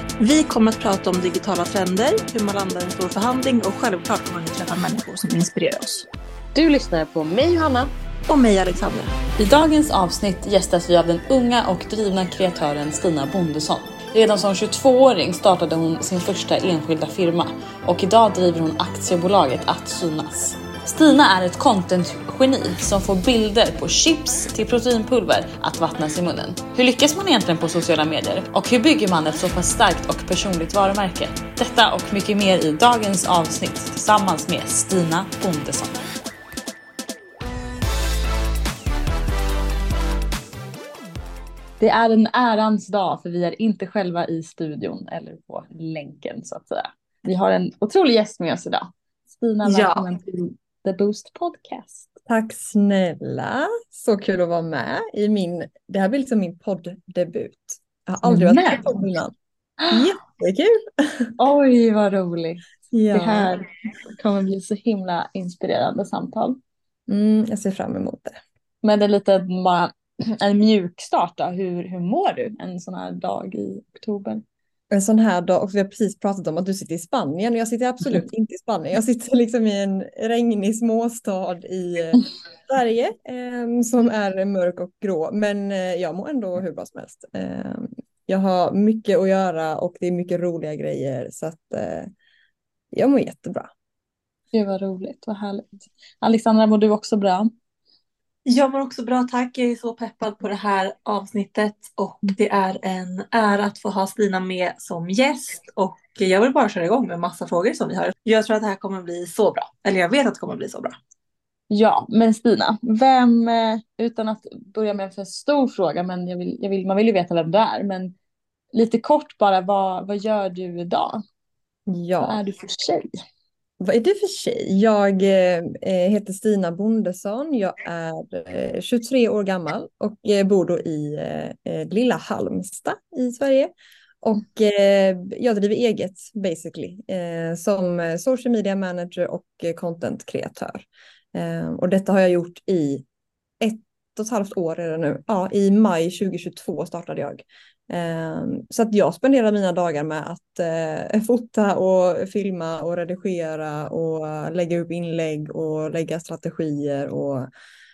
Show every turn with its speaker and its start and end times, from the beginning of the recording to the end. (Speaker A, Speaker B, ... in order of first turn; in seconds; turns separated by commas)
Speaker A: 0.2-6.1, Speaker B: 6.5-7.9, Speaker A: 8.3-9.2, Speaker B: 9.4-36.0, Speaker B: 41.8-52.1, Speaker A: 49.6-50.1, Speaker C: 52.3-59.3, Speaker B: 58.2-59.0, Speaker C: 59.9-61.3, Speaker B: 61.4-66.6, Speaker C: 62.9-63.5, Speaker C: 67.1-68.4, Speaker B: 68.8-74.4, Speaker C: 74.9-92.1, Speaker C: 92.9-93.7, Speaker B: 94.5-97.5, Speaker A: 98.5-111.0, Speaker B: 111.7-118.1, Speaker B: 118.7-121.2, Speaker C: 121.9-122.4, Speaker B: 122.2-123.2, Speaker C: 123.8-133.7, Speaker C: 134.2-143.0, Speaker C: 143.6-157.5